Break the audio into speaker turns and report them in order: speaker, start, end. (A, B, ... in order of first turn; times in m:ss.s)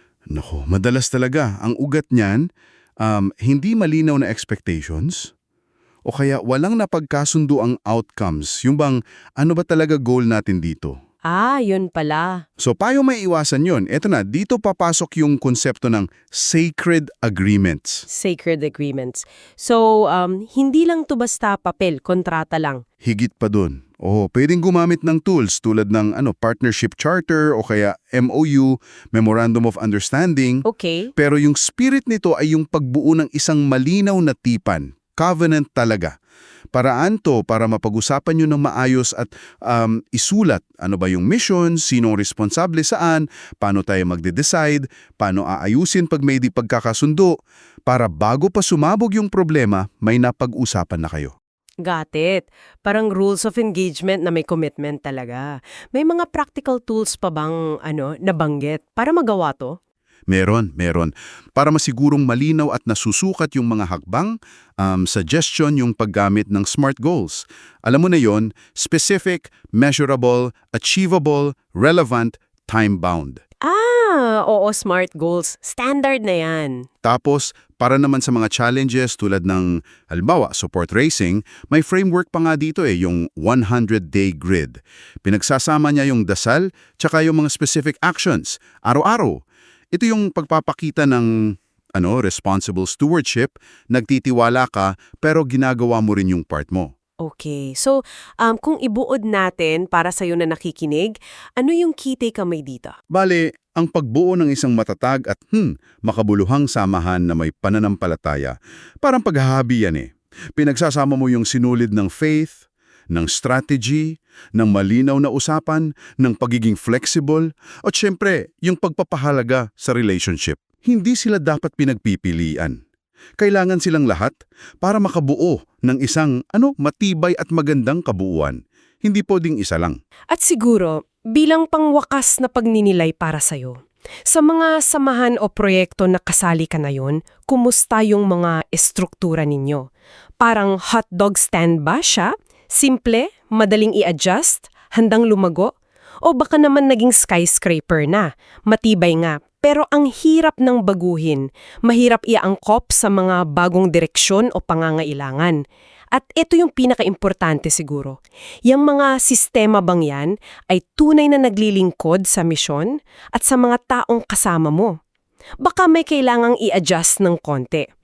0:00.3-0:02.4 A
0:03.0-0:05.3 A
0:06.1-0:11.0 A
0:11.3-0:12.4 B
0:12.6-0:18.0 A
0:18.1-0:22.8 B
0:23.0-0:30.6 A
0:30.6-0:31.1 B
0:31.2-0:36.1 A
0:36.7-0:47.3 A
0:47.9-0:51.3 A
0:51.8-0:59.8 B
1:00.3-1:13.4 A
1:13.6-1:16.8 B
1:17.0-1:29.4 A
1:29.9-1:31.3 A
1:32.0-1:36.9 A
1:37.2-1:43.0 B
1:43.1-2:02.8 A
2:03.4-2:10.0 A
2:10.3-2:19.8 B
2:20.4-2:25.7 B
2:26.2-2:35.6 B
2:36.1-2:44.9 B
2:45.6-2:47.9 B